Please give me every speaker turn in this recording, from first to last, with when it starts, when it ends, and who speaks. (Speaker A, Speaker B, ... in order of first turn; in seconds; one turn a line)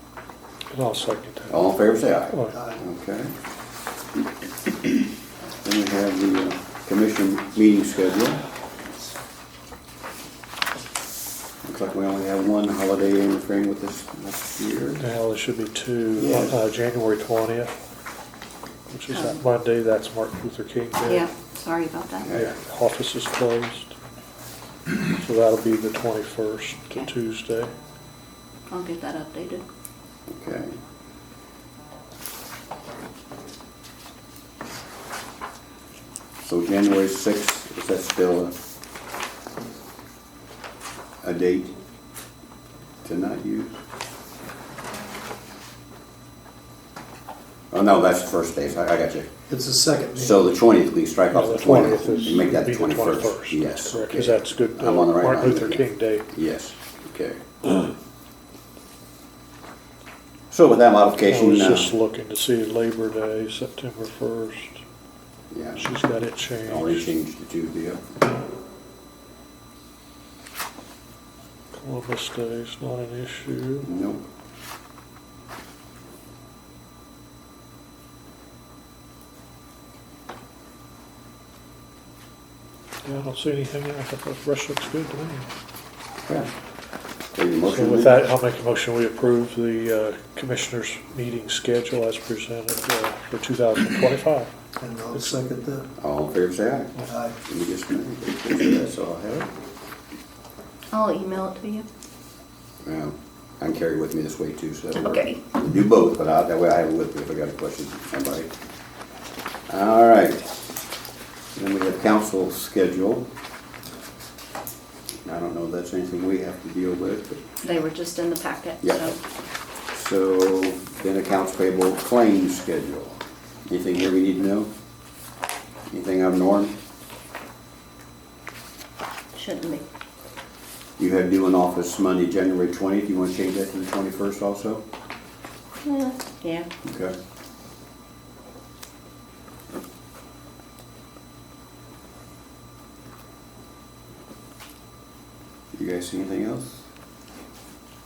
Speaker A: 0.7-1.6
Speaker B: 1.5-3.3
Speaker A: 2.3-2.5
Speaker C: 2.5-2.8
Speaker B: 5.5-8.4
Speaker B: 11.6-15.0
Speaker A: 15.0-17.7
Speaker B: 16.2-16.5
Speaker A: 18.9-21.2
Speaker D: 19.1-19.4
Speaker D: 21.0-22.3
Speaker B: 22.2-22.5
Speaker A: 22.3-23.9
Speaker A: 25.1-27.7
Speaker D: 28.7-29.6
Speaker B: 30.3-30.8
Speaker B: 36.4-38.5
Speaker B: 41.2-41.7
Speaker B: 43.0-43.8
Speaker B: 47.7-49.3
Speaker C: 49.5-50.5
Speaker B: 50.1-57.4
Speaker A: 51.3-56.3
Speaker B: 60.5-61.9
Speaker A: 61.2-64.8
Speaker B: 65.5-65.8
Speaker A: 65.7-67.1
Speaker B: 66.7-68.0
Speaker A: 71.7-73.9
Speaker B: 73.8-74.2
Speaker A: 83.0-85.5
Speaker B: 87.3-88.2
Speaker A: 87.7-94.5
Speaker C: 94.8-95.9
Speaker B: 96.0-96.9
Speaker C: 97.0-97.3
Speaker B: 97.4-99.5
Speaker D: 100.9-101.8
Speaker B: 102.8-108.5
Speaker D: 104.9-105.4
Speaker B: 109.7-110.4
Speaker B: 111.5-113.3
Speaker B: 115.2-117.4
Speaker D: 117.6-119.2
Speaker B: 118.8-119.1
Speaker B: 119.9-124.7
Speaker B: 125.9-126.8
Speaker D: 129.3-129.8
Speaker B: 131.0-134.8
Speaker D: 135.8-136.7
Speaker B: 136.8-137.1
Speaker B: 145.7-146.8